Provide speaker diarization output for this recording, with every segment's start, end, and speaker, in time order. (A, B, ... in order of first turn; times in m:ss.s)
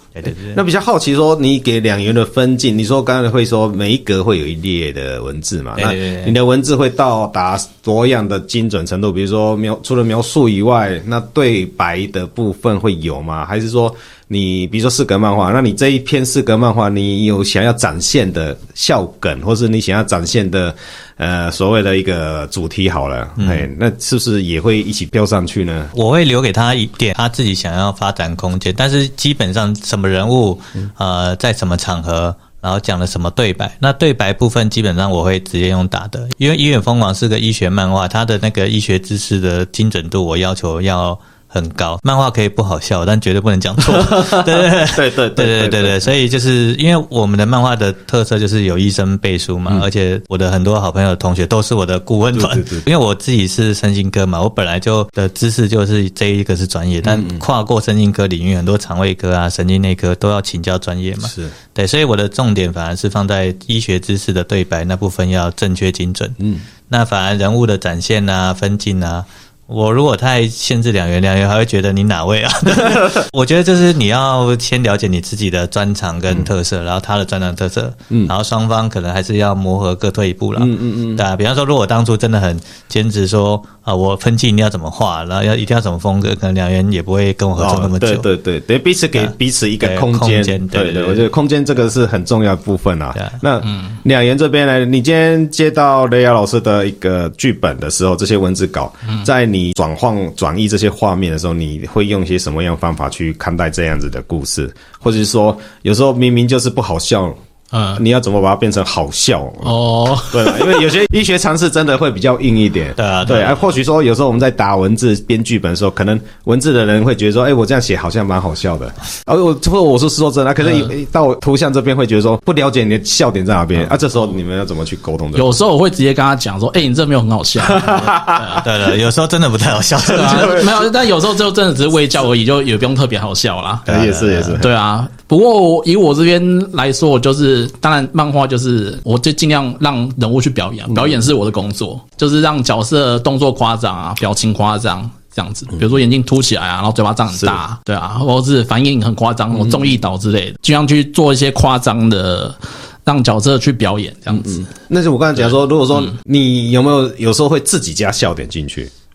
0:00.2-0:00.6 A
0:00.5-0:25.9 B
0:05.8-0:06.4 A
0:23.4-0:23.7 A
0:25.9-1:28.3 A
0:43.8-0:46.1 B
0:52.3-0:52.8 B
0:57.0-0:57.4 B
1:01.2-1:01.5 B
1:20.6-1:21.2 B
1:27.6-1:47.4 B
1:29.2-1:31.3 A
1:47.7-1:48.0 C
1:48.0-1:49.8 B
1:49.6-1:50.8 C
1:50.3-2:05.6 B
1:53.0-1:53.7 A
2:05.4-2:08.6 C
2:07.6-2:08.6 B
2:08.6-2:10.7 A
2:10.1-2:13.8 C
2:10.1-2:10.8 B
2:13.9-2:14.6 A
2:13.9-2:14.7 B
2:14.6-2:34.7 C
2:34.4-2:38.9 B